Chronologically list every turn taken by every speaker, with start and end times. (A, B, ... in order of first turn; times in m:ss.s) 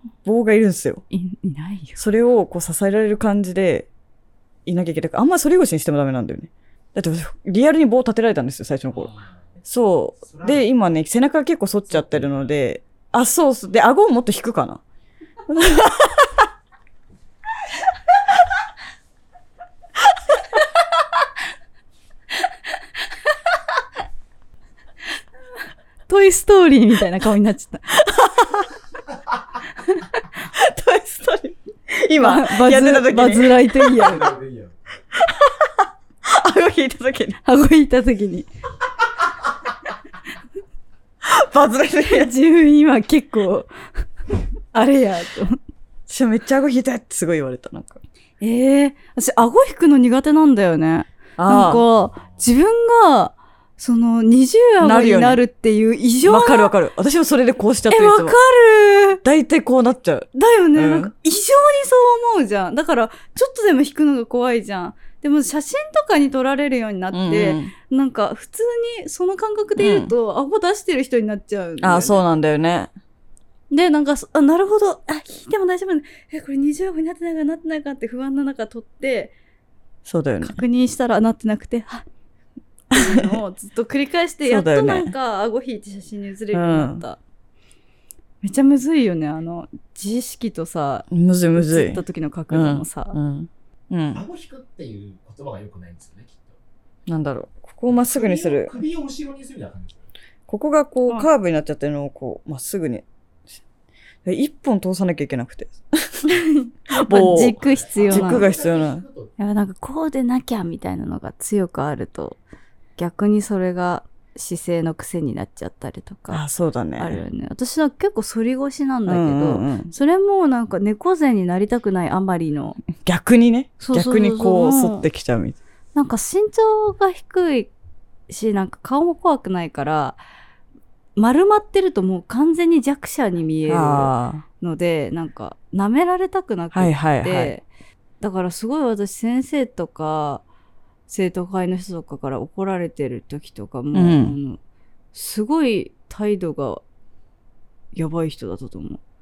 0:00.2-0:01.0 A
0:01.1-0:02.0 B
0:02.0-0:03.9 A
0:04.7-0:09.1 A
0:09.0-0:09.3 C
0:09.7-0:14.8 A
0:10.3-0:10.6 C
0:12.0-0:12.3 C
0:15.5-0:16.4 A
0:26.1-0:28.0 B
0:28.1-0:28.7 A
0:30.5-0:34.1 A
0:32.2-0:34.4 B
0:33.9-0:34.8 C
0:35.2-0:35.7 A
0:36.2-0:37.4 A
0:37.4-0:38.5 B
0:41.2-0:42.3 A
0:42.1-0:43.7 B
0:44.7-0:45.6 B
0:46.1-0:48.0 A
0:48.4-0:56.7 B
0:51.4-0:51.8 A
0:54.8-0:55.4 A
0:56.2-0:58.4 A
0:57.9-0:59.2 B
0:59.2-1:01.1 A
1:00.3-1:12.2 B
1:07.1-1:07.7 A
1:09.8-1:10.1 A
1:11.8-1:12.9 A
1:13.7-1:19.3 B
1:20.0-1:20.6 A
1:20.4-1:22.0 B
1:22.9-1:27.2 B
1:23.0-1:23.3 A
1:24.4-1:25.1 A
1:26.5-1:27.0 A
1:28.4-1:33.2 B
1:31.1-1:34.2 A
1:34.1-1:36.6 C
1:37.1-1:38.8 A
1:37.9-1:40.1 C
1:40.5-1:43.0 A
1:44.2-1:46.3 A
1:46.3-1:48.5 B
1:46.9-1:49.0 A
1:47.4-1:49.3 C
1:49.4-1:52.4 B
1:53.0-1:56.4 B
1:56.3-1:57.2 A
1:57.0-2:02.8 B
1:59.1-1:59.9 A
2:02.9-2:05.6 A
2:03.8-2:05.1 B
2:06.0-2:07.7 B
2:08.3-2:10.2 B
2:11.2-2:17.6 B
2:13.7-2:14.4 A
2:16.7-2:17.5 A
2:18.2-2:20.4 B
2:21.1-2:24.6 B
2:23.9-2:24.4 A
2:25.1-2:26.8 B
2:27.9-2:29.0 B